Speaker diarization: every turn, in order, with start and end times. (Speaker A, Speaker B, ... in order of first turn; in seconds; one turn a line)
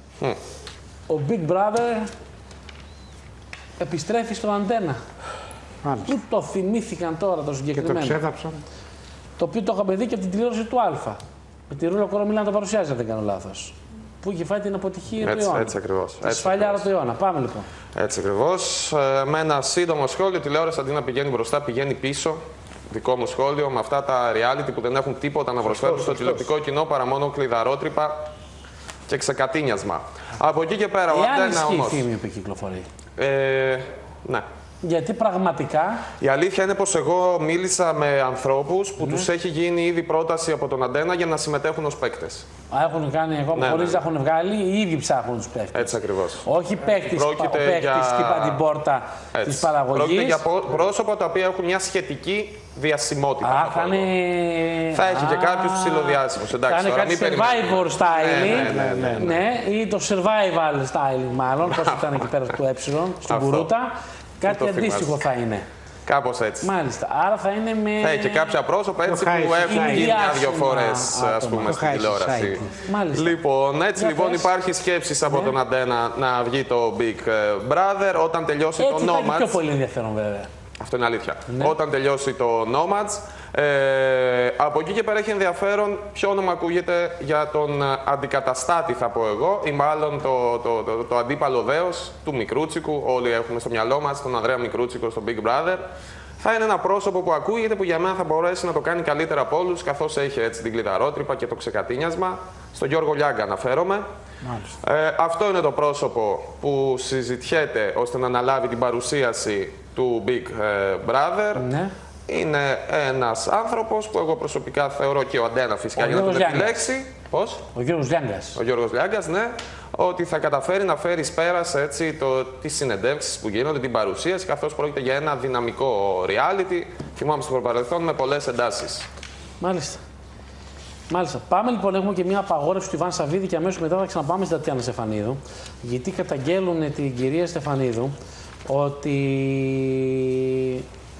Speaker A: 1.1-2.1
Speaker A: 3.8-5.0
Speaker B: 5.8-6.1
Speaker A: 6.0-8.2
Speaker B: 7.8-8.6
Speaker A: 9.4-11.2
Speaker A: 11.7-17.7
Speaker C: 15.2-16.9
Speaker C: 17.9-28.3
Speaker C: 29.1-32.0
Speaker A: 31.1-32.9
Speaker C: 33.2-34.5
Speaker A: 34.8-36.1
Speaker C: 36.2-42.5
Speaker A: 42.7-50.4
Speaker C: 43.5-44.0
Speaker C: 45.7-46.5
Speaker C: 47.0-48.6
Speaker C: 49.3-54.1
Speaker A: 53.4-65.6
Speaker C: 54.9-59.4
Speaker B: 58.3-59.3
Speaker C: 61.7-62.2
Speaker C: 63.3-63.7
Speaker C: 64.4-65.2
Speaker C: 66.0-66.7
Speaker A: 66.6-68.5
Speaker C: 68.0-79.6
Speaker B: 69.0-70.3
Speaker A: 69.7-71.9
Speaker B: 71.6-72.6
Speaker A: 72.7-73.4
Speaker A: 74.0-74.5
Speaker A: 75.3-75.5
Speaker A: 78.8-80.5
Speaker C: 80.8-95.8
Speaker A: 81.5-81.7
Speaker C: 96.4-104.0
Speaker C: 104.8-111.7
Speaker A: 111.5-111.9
Speaker C: 112.3-117.6
Speaker A: 116.0-116.8
Speaker A: 117.7-118.6
Speaker C: 118.5-129.1
Speaker A: 129.6-130.0
Speaker A: 131.1-138.1
Speaker A: 138.7-140.8